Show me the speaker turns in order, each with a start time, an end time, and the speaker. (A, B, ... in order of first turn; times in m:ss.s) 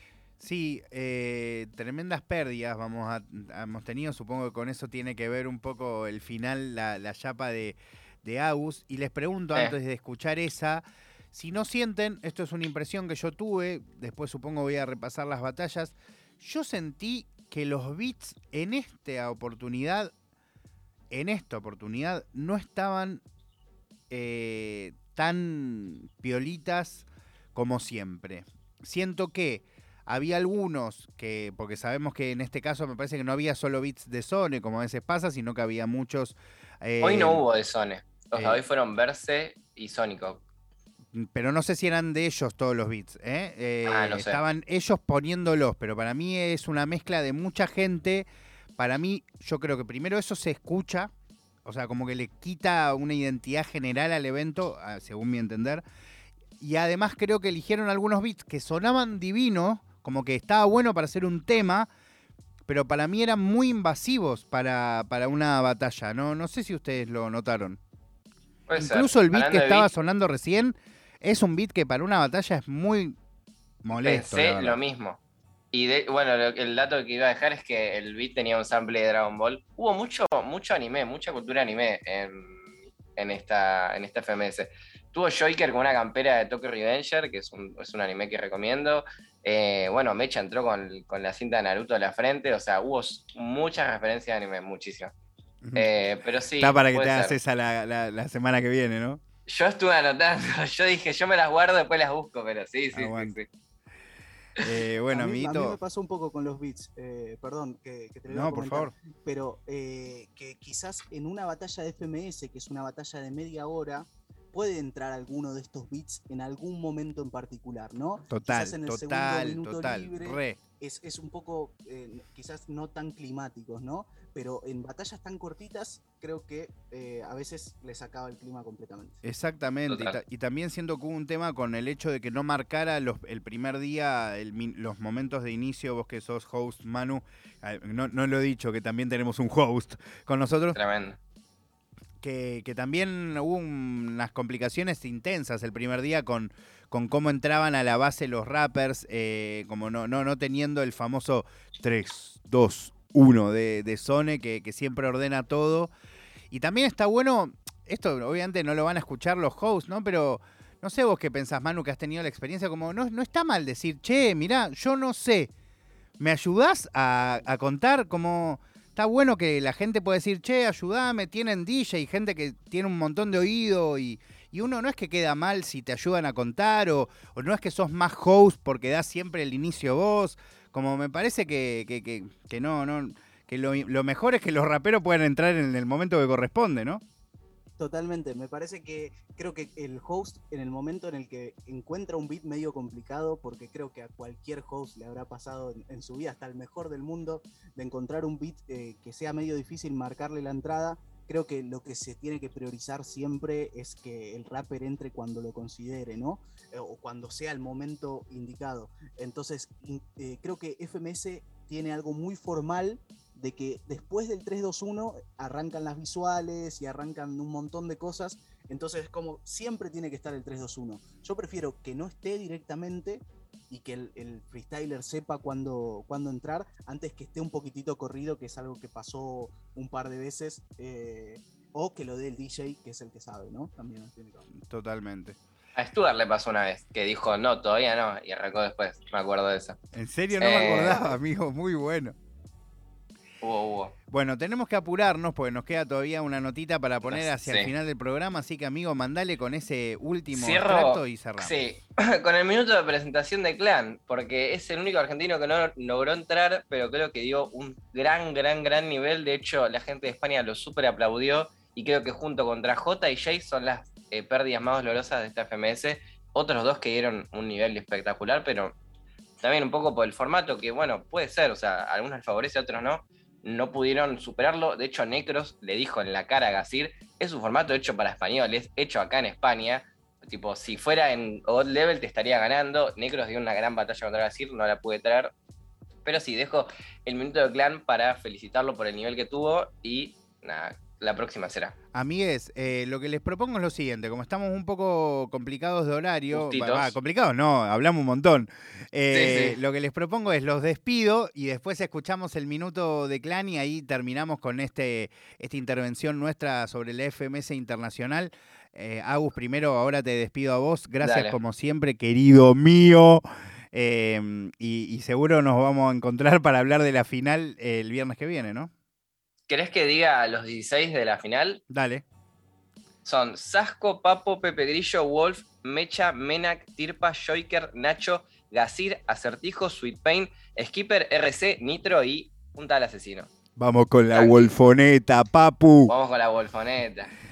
0:00.4-0:20.1 A
0:21.1-0:23.2 A
0:24.1-0:37.4 A
0:37.0-0:40.4 B
0:38.3-0:38.6 A
0:41.1-0:51.1 A
0:43.8-0:44.4 B
0:51.6-0:55.8 A
0:56.6-1:01.9 A
1:02.7-1:07.8 A
1:08.7-1:09.9 B
1:08.8-1:13.2 A
1:13.8-1:14.8 A
1:13.9-1:15.2 B
1:15.7-1:35.1 B
1:35.7-1:37.4 B
1:36.6-1:39.2 A
1:39.5-1:43.5 B
1:42.9-1:43.4 A
1:44.6-1:45.8 A
1:45.1-2:09.2 C
1:48.3-1:48.9 A
1:58.3-2:00.6 A
2:09.2-2:20.8 A
2:09.9-2:10.2 B
2:20.7-2:21.2 B
2:22.2-2:35.9 A
2:36.5-2:45.5 A
2:46.2-3:07.0 A
3:07.8-3:54.5 C
3:54.5-3:55.4 A
3:55.8-3:59.8 B
3:59.9-4:02.2 A
4:00.4-4:01.1 B
4:03.4-4:03.9 B
4:04.1-4:11.7 A
4:07.0-4:07.7 B
4:10.3-4:28.7 B
4:29.4-4:45.3 B
4:46.0-4:51.7 B
4:51.9-5:18.7 A
4:56.3-4:56.9 B
4:59.1-4:59.6 B
5:11.0-5:11.4 B
5:19.5-5:21.6 B
5:21.7-5:22.0 A
5:23.0-5:33.3 B
5:33.6-5:35.9 A
5:34.1-5:34.5 B
5:35.9-5:37.1 B